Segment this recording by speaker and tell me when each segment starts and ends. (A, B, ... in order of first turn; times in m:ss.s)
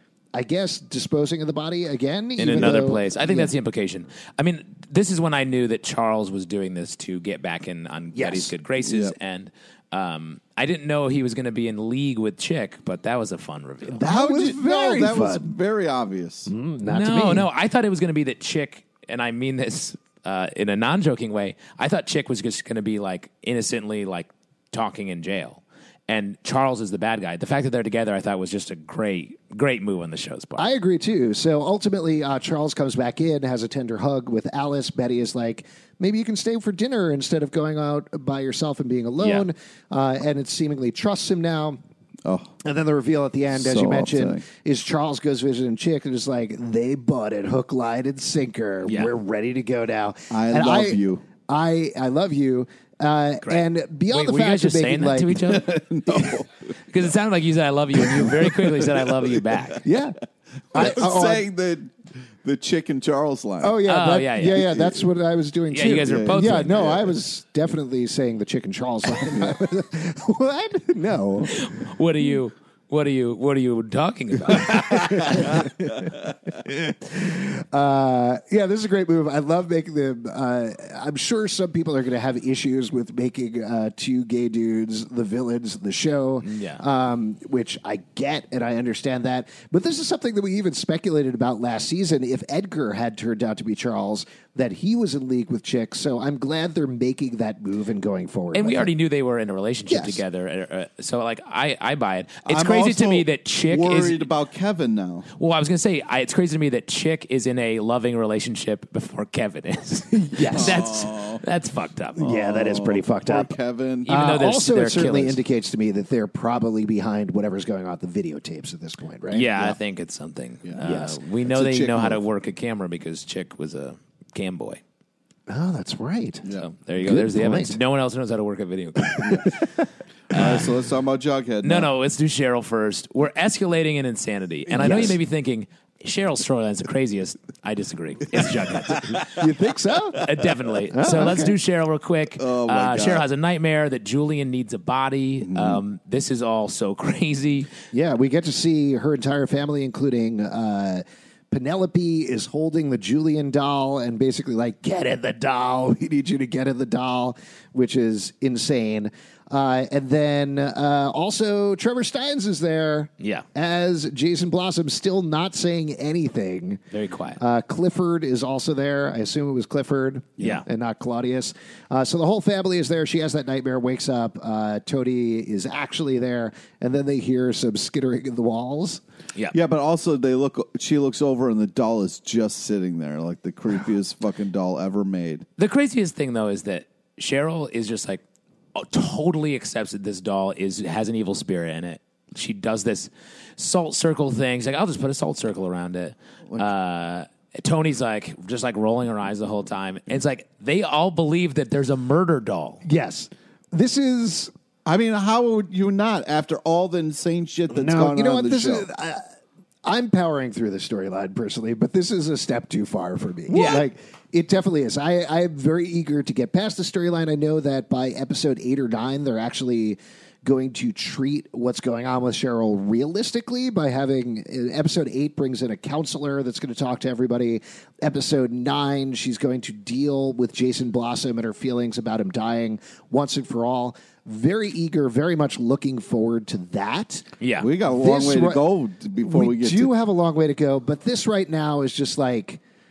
0:00.3-0:03.5 A
0:02.4-0:14.0 B
0:08.1-0:08.5 A
0:08.8-0:09.1 C
0:14.0-0:15.5 A
0:14.0-0:16.5 C
0:16.5-0:17.5 A
0:16.9-0:30.6 B
0:30.6-0:41.8 A
0:39.2-0:39.5 B
0:42.2-0:42.5 C
0:42.6-0:55.6 A
0:43.5-0:44.4 C
0:50.3-0:51.2 C
0:54.1-0:56.3 B
0:55.5-0:56.5 C
0:56.9-0:59.8 B
0:58.0-0:59.0 C
0:59.8-1:00.2 A
1:00.7-1:01.5 A
1:00.7-1:03.8 C
1:03.6-1:11.6 A
1:03.8-1:04.7 B
1:04.7-1:05.0 C
1:05.7-1:06.9 B
1:06.0-1:07.1 C
1:11.4-1:15.7 B
1:14.6-1:38.9 A
1:26.4-1:26.8 B
1:38.5-1:44.3 B
1:39.9-1:40.2 A
1:42.5-1:45.3 C
1:45.4-1:52.2 B
1:50.1-1:50.9 A
1:50.5-1:51.4 C
1:52.2-1:53.5 A
1:52.2-1:54.1 C
1:54.1-1:55.4 B
1:54.1-1:59.8 A
1:59.3-2:04.8 B
2:00.6-2:00.9 C
2:00.8-2:01.2 A
2:01.5-2:02.2 C
2:05.5-2:06.5 A
2:06.6-2:09.6 B
2:07.0-2:07.8 A
2:09.2-2:09.6 A
2:10.3-2:10.7 B
2:10.3-2:11.9 C
2:11.6-2:19.4 B
2:14.7-2:15.2 A
2:19.3-2:20.2 A
2:20.2-2:27.7 B
2:20.9-2:21.6 A
2:22.4-2:23.3 C
2:25.4-2:25.8 C
2:27.9-2:46.8 A
2:43.2-2:43.5 B
2:46.9-2:47.4 B
2:47.4-2:59.0 A
2:50.4-2:50.6 B
2:59.5-3:05.5 C
3:05.6-3:08.2 B
3:08.8-3:22.8 B
3:22.8-3:24.5 A
3:24.8-3:28.9 C
3:27.7-3:29.2 A
3:29.8-3:57.3 A
3:33.5-3:33.9 B
3:57.4-3:57.7 B
3:57.6-3:59.9 C
3:57.9-3:58.6 A
3:59.2-4:02.6 A